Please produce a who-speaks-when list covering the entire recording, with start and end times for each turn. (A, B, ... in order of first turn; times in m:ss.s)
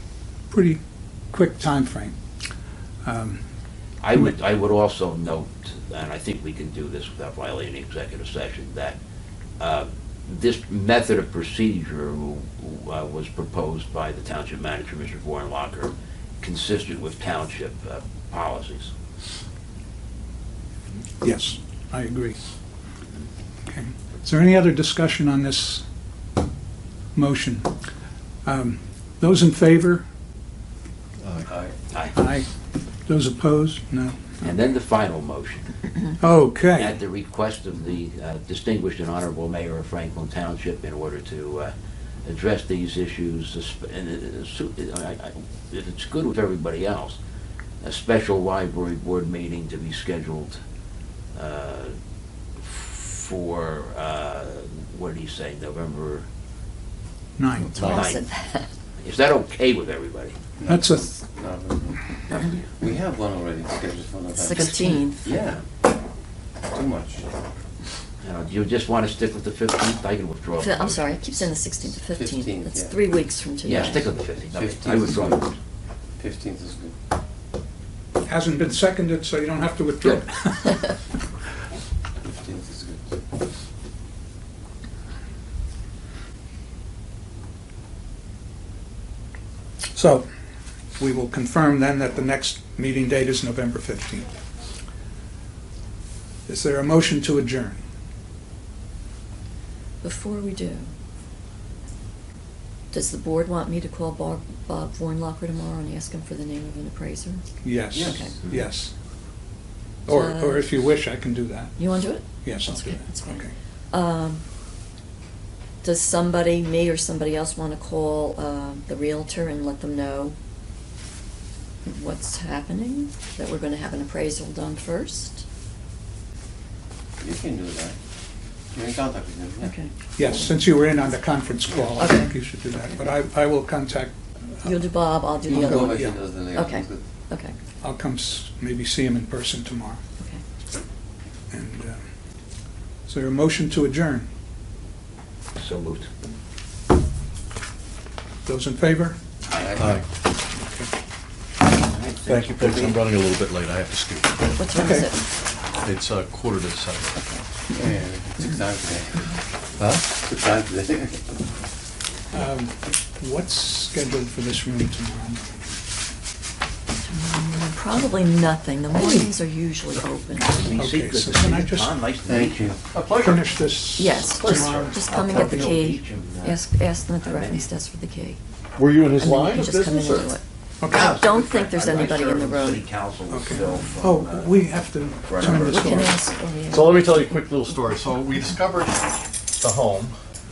0:00.5-0:00.8 A
0:01.3-0:02.2 A
0:03.0-0:03.4 A
0:04.0-0:09.0 B
0:04.1-0:04.4 A
0:09.6-0:18.9 B
0:21.2-0:22.4 A
0:23.7-0:25.8 A
0:27.2-0:27.7 A
0:28.4-0:30.0 A
0:31.2-0:31.5 C
0:31.5-0:31.8 D
0:31.9-0:32.2 B
0:32.1-0:32.5 A
0:33.1-0:34.5 A
0:34.4-0:35.7 B
0:36.2-0:37.0 A
0:36.8-0:41.7 B
0:42.2-0:47.2 B
0:47.8-0:50.6 B
0:51.4-0:52.0 B
0:52.6-0:56.3 B
0:57.4-0:58.0 A
0:57.6-0:58.7 E
0:57.8-0:58.2 B
0:59.0-1:00.4 B
1:00.6-1:02.1 D
1:00.7-1:01.1 A
1:02.3-1:02.7 B
1:02.8-1:05.6 D
1:04.4-1:05.2 E
1:06.7-1:07.3 D
1:08.2-1:11.5 B
1:10.6-1:14.1 E
1:12.1-1:13.0 D
1:13.6-1:15.5 B
1:14.3-1:15.5 D
1:16.2-1:16.9 D
1:18.3-1:20.9 A
1:22.2-1:23.1 D
1:29.9-1:30.3 A
1:31.0-1:34.3 A
1:36.5-1:37.8 A
1:40.0-1:40.9 E
1:42.9-1:47.4 E
1:47.6-1:48.9 A
1:47.9-1:48.3 D
1:48.0-1:48.3 E
1:50.1-1:51.8 A
1:50.1-1:50.7 E
1:51.8-1:54.4 E
1:52.4-1:53.5 A
1:55.8-2:00.4 E
2:01.8-2:05.4 E
2:07.2-2:08.0 D
2:08.7-2:09.8 D
2:09.6-2:10.6 E
2:10.2-2:14.8 A
2:12.0-2:12.3 E
2:14.6-2:17.6 E
2:15.5-2:17.0 D
2:15.5-2:16.2 A
2:17.8-2:20.0 A
2:21.5-2:22.1 A
2:23.1-2:24.3 A
2:25.6-2:26.1 B
2:28.4-2:29.2 A
2:29.5-2:29.8 B
2:29.5-2:30.0 D
2:29.8-2:30.1 C
2:30.6-2:30.9 A
2:31.7-2:33.0 B
2:32.3-2:34.6 C
2:34.6-2:35.2 E
2:34.8-2:35.1 A
2:35.8-2:37.2 C
2:37.7-2:39.3 D
2:39.8-2:40.1 C
2:40.1-2:41.4 D
2:42.3-2:45.5 A
2:47.0-2:50.7 E
2:49.0-2:49.2 A
2:50.4-2:52.8 B
2:50.8-2:51.9 A
2:52.3-2:52.8 D
2:52.9-2:53.7 C
2:53.2-2:55.7 A
2:54.0-2:58.4 E
2:54.5-2:56.7 B
2:57.2-2:57.7 B
2:58.8-3:00.4 C
2:59.2-3:02.9 E
3:00.8-3:01.2 A
3:00.9-3:04.5 B
3:03.3-3:06.2 A
3:05.3-3:06.1 B
3:05.7-3:07.2 E
3:06.7-3:10.2 C